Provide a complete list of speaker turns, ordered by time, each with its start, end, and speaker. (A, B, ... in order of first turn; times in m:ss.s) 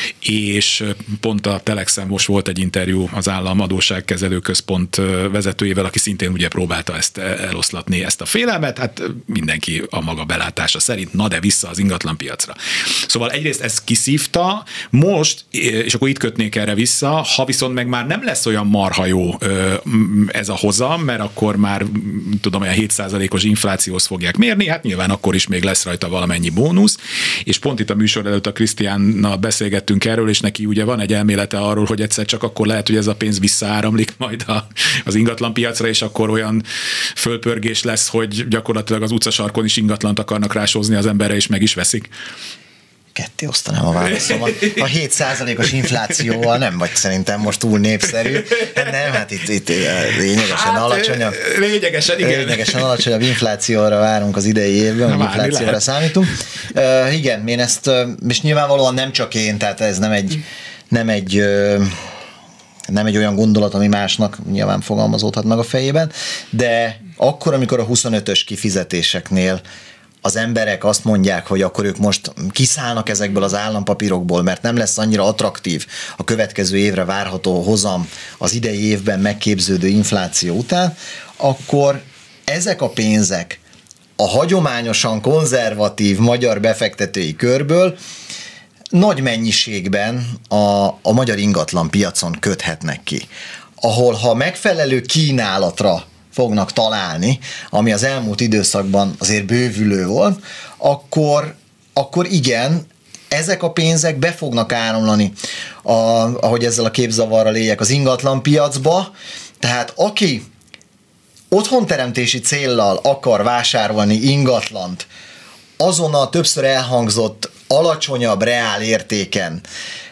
0:00.2-0:36.6 A
0:37.2-0:42.1 A
0:43.1-0:51.4 B
0:44.0-0:44.8 A
0:48.2-0:49.2 A
0:50.3-0:53.0 A
0:52.2-1:01.9 B
0:55.0-0:56.3 A
1:02.9-1:09.6 B
1:10.2-1:23.6 B
1:24.2-1:28.0 B
1:28.9-1:33.3 B
1:33.8-1:50.4 B
1:51.5-1:55.1 B
1:55.8-1:59.6 B